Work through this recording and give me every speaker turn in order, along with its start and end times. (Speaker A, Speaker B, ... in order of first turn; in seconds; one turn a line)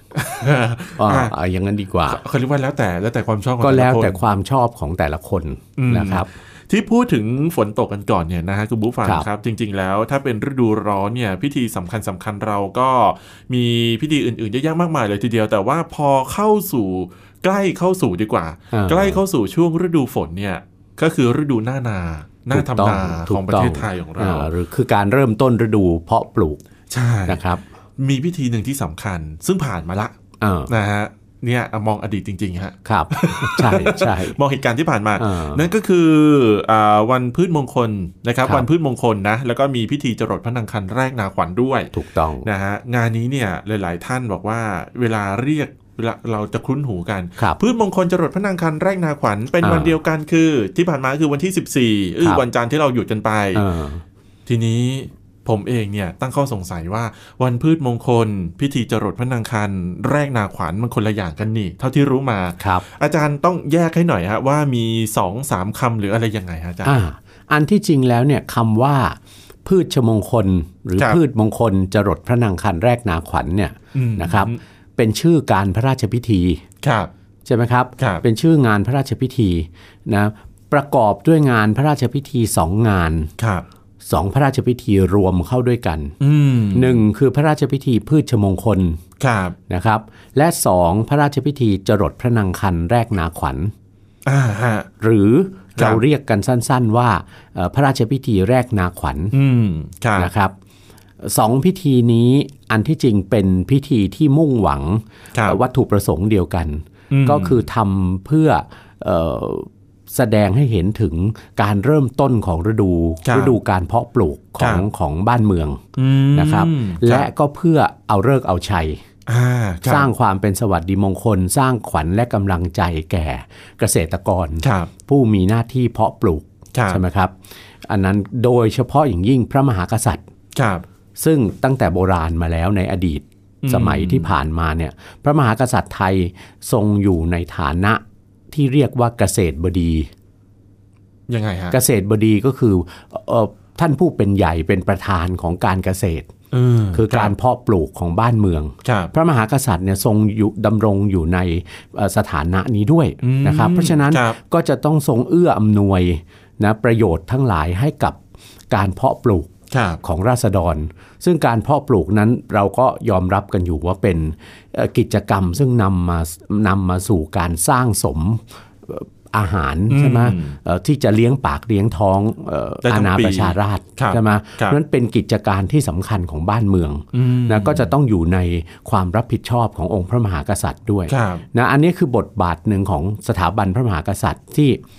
Speaker A: 0.1-1.3
Speaker B: 1.0-2.2
Speaker A: 2.1-4.2
Speaker B: 3.6-6.3
Speaker A: 5.8-24.5
Speaker B: 18.7-19.2
Speaker B: 22.5-26.6
Speaker A: 26.9-27.4
Speaker B: 27.3-27.6
Speaker A: 28.0-30.1
Speaker B: 30.4-30.7
Speaker A: 30.7-41.9
Speaker B: 32.8-34.4
Speaker B: 35.2-35.7
Speaker B: 41.9-42.5
Speaker A: 42.4-53.6
Speaker B: 49.6-50.0
Speaker B: 53.5-54.0
Speaker A: 54.5-67.0
Speaker B: 62.6-62.8
Speaker B: 66.8-76.6
Speaker A: 73.9-74.6
Speaker A: 76.8-77.1
Speaker B: 77.4-83.3
Speaker A: 83.4-83.6
Speaker B: 84.0-86.2
Speaker A: 86.2-87.0
Speaker B: 86.7-89.0
Speaker A: 89.2-89.5
Speaker B: 89.7-93.7
Speaker A: 94.2-94.9
Speaker B: 95.0-99.3
Speaker A: 95.8-96.0
Speaker A: 99.3-100.3
Speaker B: 100.2-100.5
Speaker B: 101.2-115.8
Speaker A: 107.1-107.6
Speaker A: 113.2-113.6
Speaker A: 114.6-114.8
Speaker A: 116.0-117.3
Speaker B: 116.3-119.0
Speaker A: 119.3-120.1
Speaker B: 119.8-127.3
Speaker A: 124.6-124.9
Speaker A: 126.7-127.0
Speaker B: 127.9-130.2
Speaker A: 130.5-130.8
Speaker B: 131.2-140.1
Speaker A: 133.6-134.3
Speaker A: 141.3-141.8
Speaker B: 141.7-146.3
Speaker A: 146.5-147.3
Speaker B: 146.9-158.2
Speaker A: 148.8-149.1
Speaker A: 153.2-154.4
Speaker B: 158.7-184.8
Speaker A: 159.7-160.0
Speaker A: 169.9-170.6
Speaker A: 172.8-174.8
Speaker A: 177.1-177.9
Speaker A: 181.1-181.4